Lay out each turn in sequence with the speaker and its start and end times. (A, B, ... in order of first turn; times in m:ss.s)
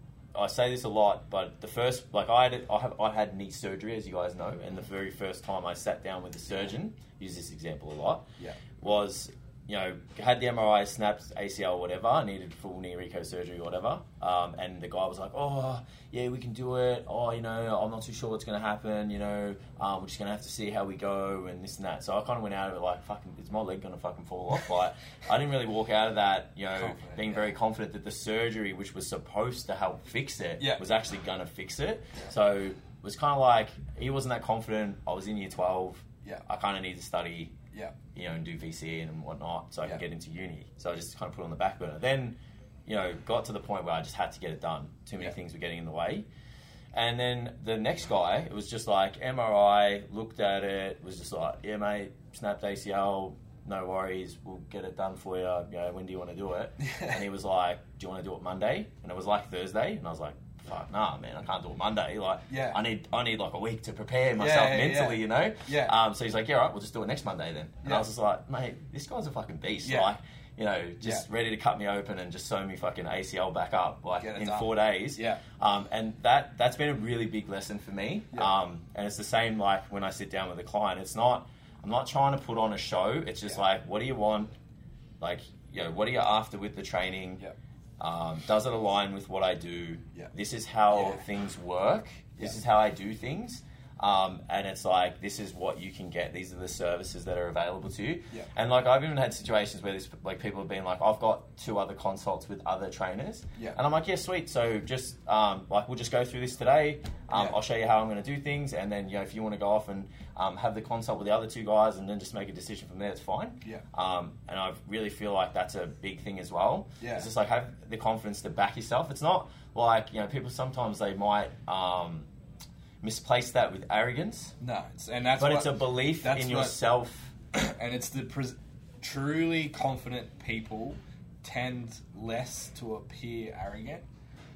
0:00.3-0:37.6 A
0:26.8-0:27.5 B
0:30.6-0:30.8 B
0:38.1-0:46.3 A
0:46.9-1:24.5 A
0:56.8-0:57.2 B
1:02.5-1:02.8 B
1:04.4-1:06.0 B
1:09.8-1:10.1 B
1:14.2-1:15.4 B
1:25.2-1:27.4 A
1:28.0-2:02.3 A
1:30.9-1:31.2 B
1:57.0-1:57.3 B
2:03.0-2:04.6 A
2:04.6-2:06.8 B
2:05.4-2:07.3 A
2:07.5-2:14.0 B